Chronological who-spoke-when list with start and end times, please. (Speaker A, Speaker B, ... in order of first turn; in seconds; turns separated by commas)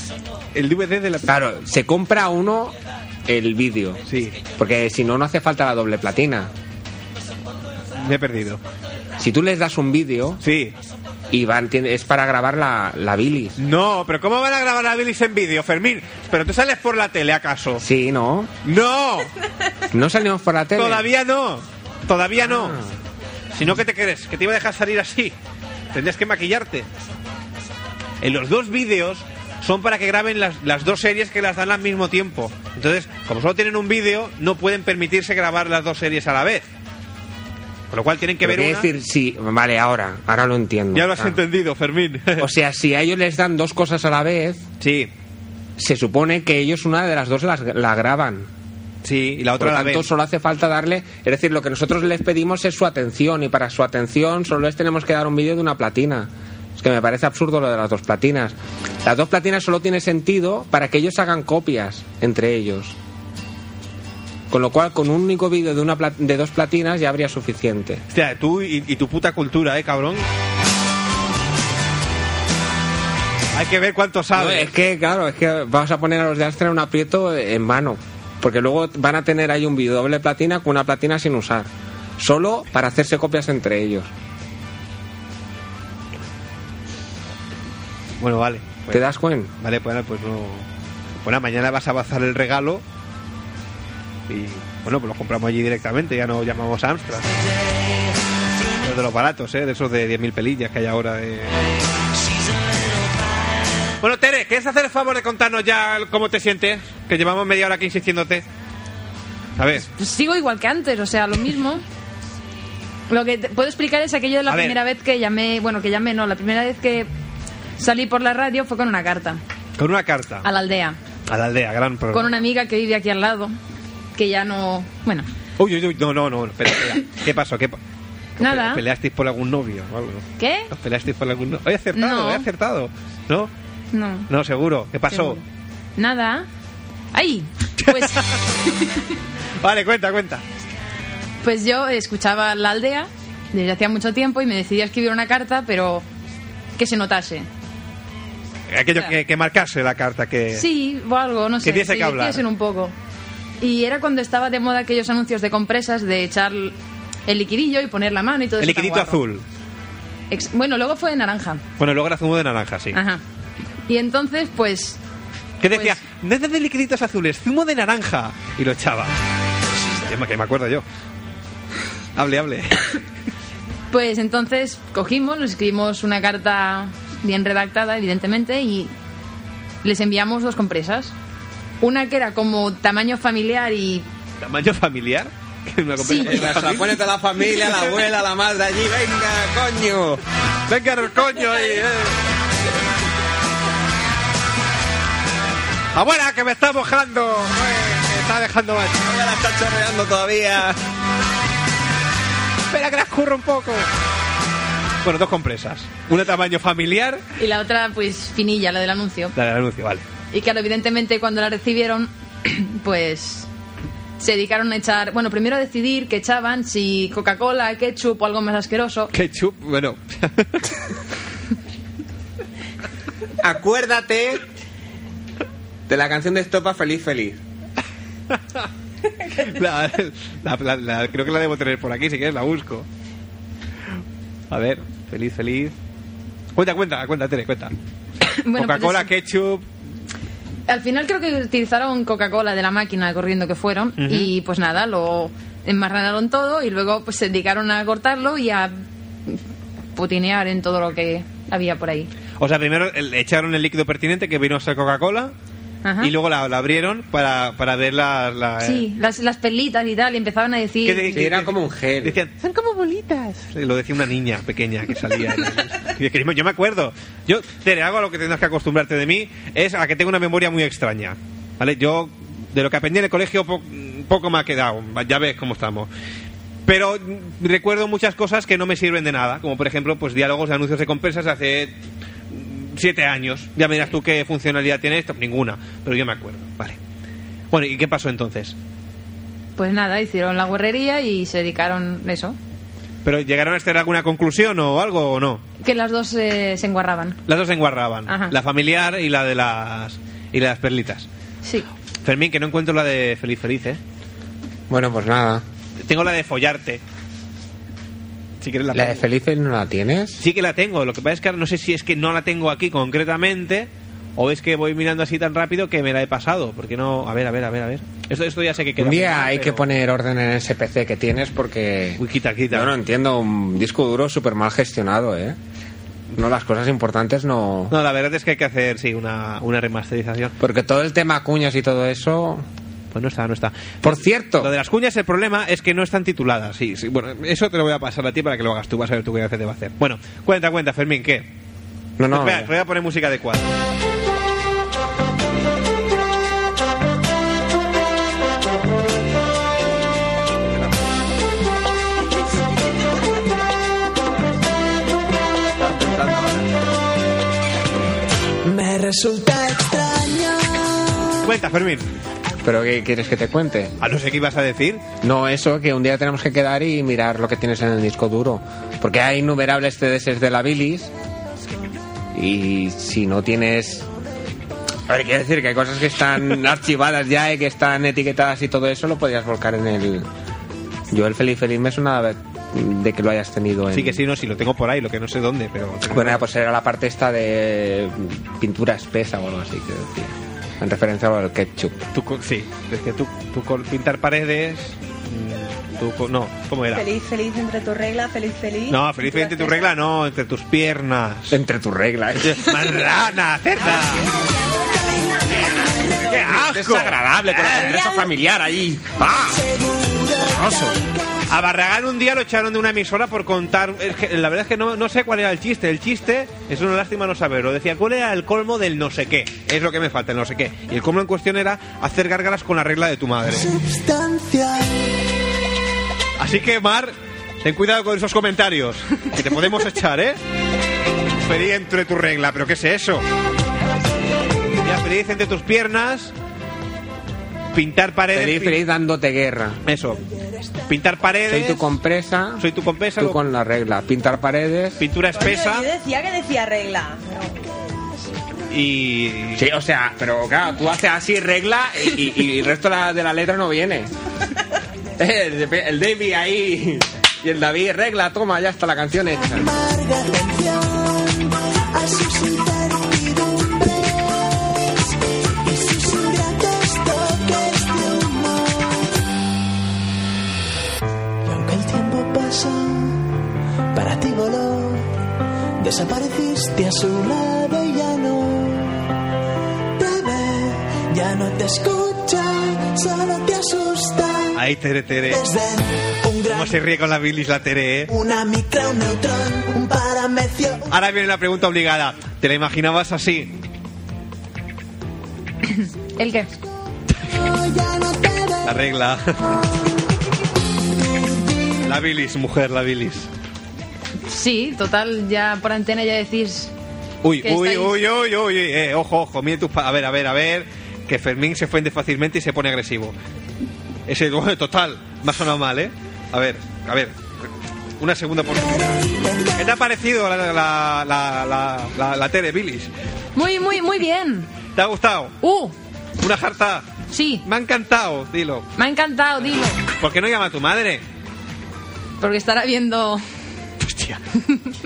Speaker A: 0.5-1.3, Speaker B: 1.3-4.0, Speaker A: 4.1-4.4, Speaker B: 4.5-6.5, Speaker A: 8.0-8.6, Speaker B: 9.2-10.4, Speaker A: 10.4-10.7, Speaker B: 11.3-13.6, Speaker A: 13.6-17.8, Speaker B: 17.8-18.5, Speaker A: 18.6-19.3, Speaker B: 19.9-21.1, Speaker A: 20.8-22.8, Speaker B: 22.4-22.9, Speaker A: 23.5-25.3, Speaker A: 25.9-26.9, Speaker A: 28.2-36.6, Speaker A: 37.9-38.9, Speaker B: 38.4-41.4, Speaker A: 40.9-42.5, Speaker B: 42.4-44.6, Speaker A: 44.8-45.1, Speaker B: 45.8-48.5, Speaker A: 49.0-50.1, Speaker B: 49.6-63.0, Speaker B: 64.5-68.0, Speaker A: 68.1-70.2, Speaker A: 73.5-74.7, Speaker B: 74.3-84.1, Speaker A: 88.2-90.7, Speaker B: 88.9-89.5, Speaker A: 91.2-92.8, Speaker A: 94.3-97.3, Speaker A: 98.8-101.5, Speaker A: 104.0-108.4, Speaker A: 109.6-109.9, Speaker C: 109.9-111.8, Speaker C: 113.1-117.1, Speaker A: 114.5-114.8, Speaker C: 117.8-119.4, Speaker A: 119.8-120.5, Speaker C: 120.4-121.0, Speaker A: 121.3-122.3, Speaker C: 122.1-123.5, Speaker C: 124.1-125.3, Speaker A: 125.6-127.8, Speaker C: 128.4-128.8, Speaker A: 128.4-133.5, Speaker C: 130.4-130.7, Speaker C: 131.9-132.5, Speaker C: 133.9-134.3, Speaker A: 134.3-135.4, Speaker C: 135.1-135.4, Speaker C: 136.0-136.5, Speaker C: 137.1-139.1, Speaker A: 137.8-138.3, Speaker A: 139.6-140.4, Speaker C: 141.4-146.1, Speaker C: 146.8-147.5, Speaker A: 148.7-150.7, Speaker C: 150.5-152.9, Speaker A: 151.6-152.4, Speaker C: 153.6-156.7, Speaker C: 157.3-159.2, Speaker A: 158.6-159.4, Speaker C: 160.3-161.6, Speaker A: 161.8-163.0, Speaker C: 162.9-163.2, Speaker C: 163.9-165.0, Speaker A: 165.6-169.1, Speaker C: 165.7-166.0, Speaker A: 169.9-170.8, Speaker A: 172.2-172.9, Speaker C: 173.9-178.9, Speaker C: 179.8-181.1, Speaker C: 181.8-184.1, Speaker A: 184.4-187.0, Speaker C: 186.0-186.3, Speaker B: 186.1-190.2, Speaker A: 190.7-192.2, Speaker A: 195.9-200.8, Speaker B: 199.2-200.7, Speaker A: 202.7-203.9, Speaker A: 205.0-207.2, Speaker C: 207.4-209.3, Speaker A: 209.3-210.0, Speaker C: 210.3-213.5, Speaker C: 214.2-219.1, Speaker A: 219.1-220.7, Speaker B: 223.4-224.4, Speaker B: 225.9-227.4, Speaker A: 229.3-232.8, Speaker A: 234.5-235.7, Speaker A: 236.5-237.7, Speaker C: 238.2-239.1, Speaker A: 238.6-239.6, Speaker C: 240.7-248.7, Speaker A: 244.0-244.3, Speaker C: 249.9-252.1, Speaker A: 252.4-255.3, Speaker C: 255.8-256.1, Speaker A: 256.0-258.9, Speaker C: 258.6-261.2, Speaker A: 260.8-275.9, Speaker B: 261.1-262.2, Speaker A: 276.6-281.7, Speaker A: 282.3-286.8, Speaker A: 287.5-288.6, Speaker C: 289.6-292.4, Speaker A: 293.0-295.4, Speaker C: 295.6-297.2, Speaker A: 297.3-301.1, Speaker C: 298.1-298.3, Speaker A: 302.0-303.8, Speaker B: 304.7-305.4, Speaker A: 305.8-306.8, Speaker A: 308.4-309.0, Speaker B: 308.7-310.2, Speaker A: 310.2-319.6, Speaker B: 318.8-325.4, Speaker A: 322.0-322.7, Speaker B: 326.1-327.7, Speaker A: 327.7-330.3, Speaker B: 330.4-332.4, Speaker A: 332.9-341.3, Speaker B: 333.8-334.5, Speaker B: 342.0-342.5, Speaker A: 342.1-343.5, Speaker B: 355.6-356.4, Speaker D: 358.4-361.1, Speaker A: 361.2-361.9, Speaker B: 362.4-363.7, Speaker A: 363.8-364.8, Speaker B: 365.0-370.9, Speaker B: 372.1-373.9, Speaker B: 374.9-380.1, Speaker B: 380.9-384.0, Speaker A: 383.7-386.2, Speaker B: 385.9-391.9, Speaker A: 391.9-396.9, Speaker E: 396.7-399.7, Speaker A: 398.7-401.4, Speaker B: 401.3-402.7, Speaker A: 402.3-404.1, Speaker B: 405.9-409.4, Speaker A: 406.0-407.9, Speaker D: 409.3-411.1, Speaker B: 410.2-410.8, Speaker A: 411.3-423.4, Speaker D: 423.2-424.8, Speaker A: 426.2-430.2, Speaker A: 431.2-433.0, Speaker A: 434.6-436.1, Speaker A: 437.5-438.6, Speaker B: 438.1-439.6, Speaker A: 439.6-440.0, Speaker A: 440.7-441.7, Speaker B: 441.3-442.4, Speaker A: 442.4-443.2, Speaker B: 443.0-444.8, Speaker A: 444.8-445.7, Speaker E: 445.1-447.4, Speaker A: 448.5-449.5, Speaker B: 449.4-453.9, Speaker B: 455.0-459.5, Speaker D: 459.2-464.8, Speaker D: 465.4-468.9, Speaker D: 471.2-473.1, Speaker D: 473.7-474.9, Speaker D: 475.6-478.8, Speaker D: 479.8-484.4, Speaker A: 484.4-485.2, Speaker D: 485.1-486.6, Speaker A: 486.3-487.9, Speaker D: 487.9-490.7, Speaker A: 490.7-493.3, Speaker C: 495.4-496.3, Speaker D: 497.2-498.4, Speaker A: 498.4-499.4, Speaker A: 501.6-503.1, Speaker C: 504.1-506.5, Speaker A: 507.0-512.9, Speaker C: 507.2-507.8, Speaker A: 513.9-517.0, Speaker A: 517.8-518.8, Speaker D: 518.4-519.5, Speaker A: 519.4-522.7, Speaker C: 523.1-524.3, Speaker A: 524.5-525.1, Speaker C: 525.2-525.5, Speaker A: 526.0-528.5, Speaker C: 526.9-527.2, Speaker C: 528.6-529.6, Speaker A: 529.7-530.8, Speaker C: 532.0-533.0, Speaker A: 533.6-534.0